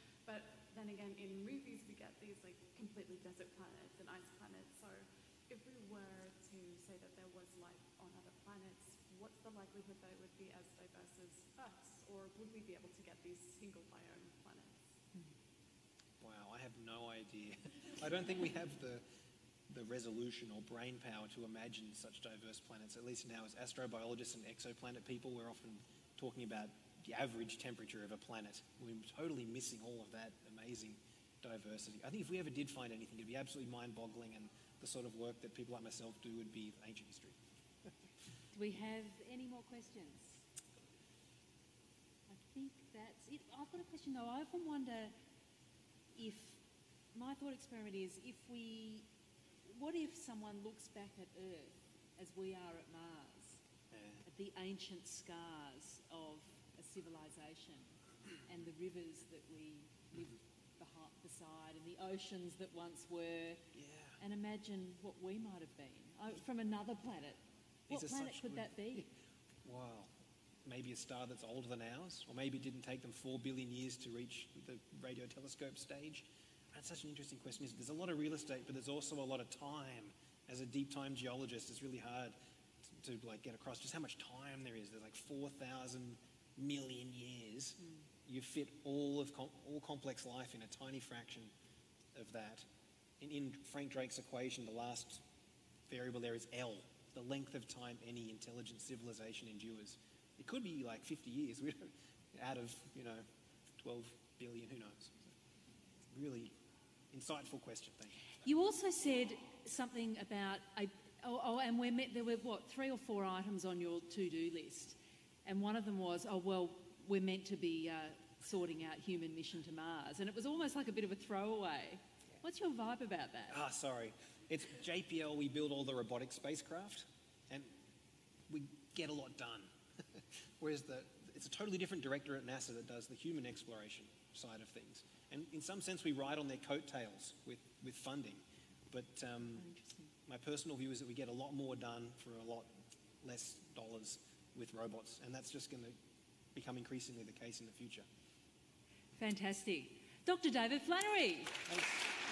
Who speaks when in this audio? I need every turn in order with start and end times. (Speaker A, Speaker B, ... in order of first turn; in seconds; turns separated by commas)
Speaker A: 0.2-14.8, Speaker B: 16.2-19.0, Speaker B: 19.7-37.4, Speaker C: 38.5-40.4, Speaker C: 42.3-45.1, Speaker C: 46.1-46.6, Speaker C: 47.1-49.1, Speaker C: 49.6-53.6, Speaker B: 53.9-54.2, Speaker C: 54.2-63.6, Speaker B: 63.7-64.2, Speaker C: 64.2-69.0, Speaker B: 67.9-69.0, Speaker B: 69.6-70.1, Speaker B: 70.6-82.4, Speaker B: 83.0-91.5, Speaker B: 92.1-92.7, Speaker B: 93.2-95.2, Speaker B: 95.9-103.2, Speaker B: 103.8-105.3, Speaker B: 106.1-106.5, Speaker B: 107.1-108.2, Speaker C: 108.4-123.6, Speaker B: 123.5-127.7, Speaker B: 128.5-139.7, Speaker C: 139.5-140.1, Speaker B: 140.2-142.7, Speaker B: 143.2-145.9, Speaker B: 146.5-148.1, Speaker C: 149.2-151.7